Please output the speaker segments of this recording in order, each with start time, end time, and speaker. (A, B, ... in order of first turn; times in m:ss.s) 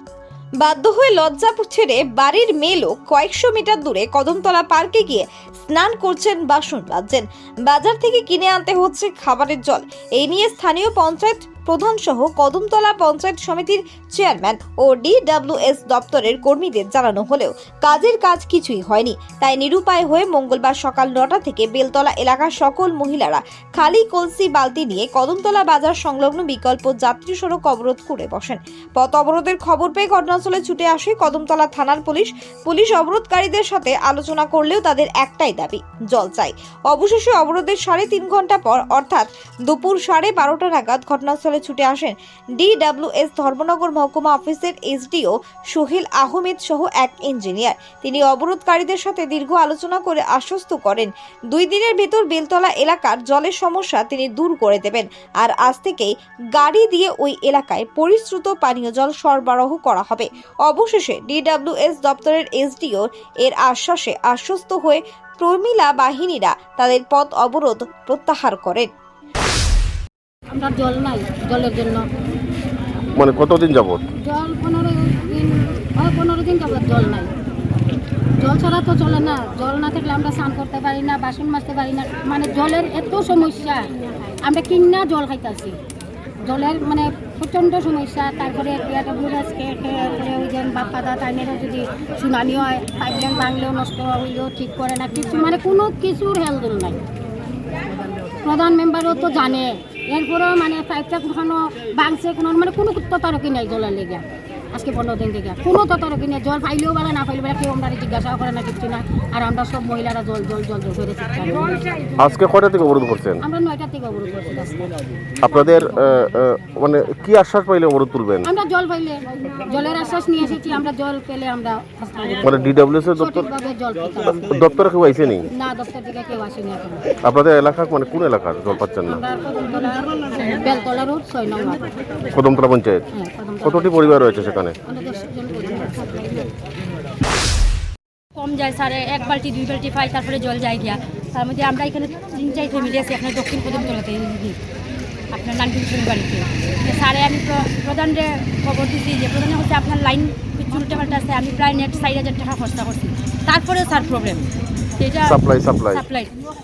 0:00.6-1:08.9 A
1:10.5-1:12.1 B
1:13.2-1:14.0 C
1:14.2-1:17.3 B
1:18.4-1:23.9 B
1:24.4-1:25.8 B
1:26.4-1:37.0 B
1:38.4-1:51.9 B
1:52.2-1:53.4 C
1:53.4-1:54.9 B
1:55.4-1:58.5 C
1:58.5-2:04.5 B
2:02.4-2:03.5 C
2:04.5-2:05.5 C
2:05.5-2:07.0 B
2:07.2-2:09.2 C
2:09.1-2:11.8 B
2:12.3-2:13.0 C
2:13.1-2:13.9 B
2:13.6-2:14.8 C
2:14.8-2:16.5 B
2:18.4-2:24.6 D
2:25.3-2:34.4 D
2:35.0-2:36.3 D
2:35.2-2:36.0 C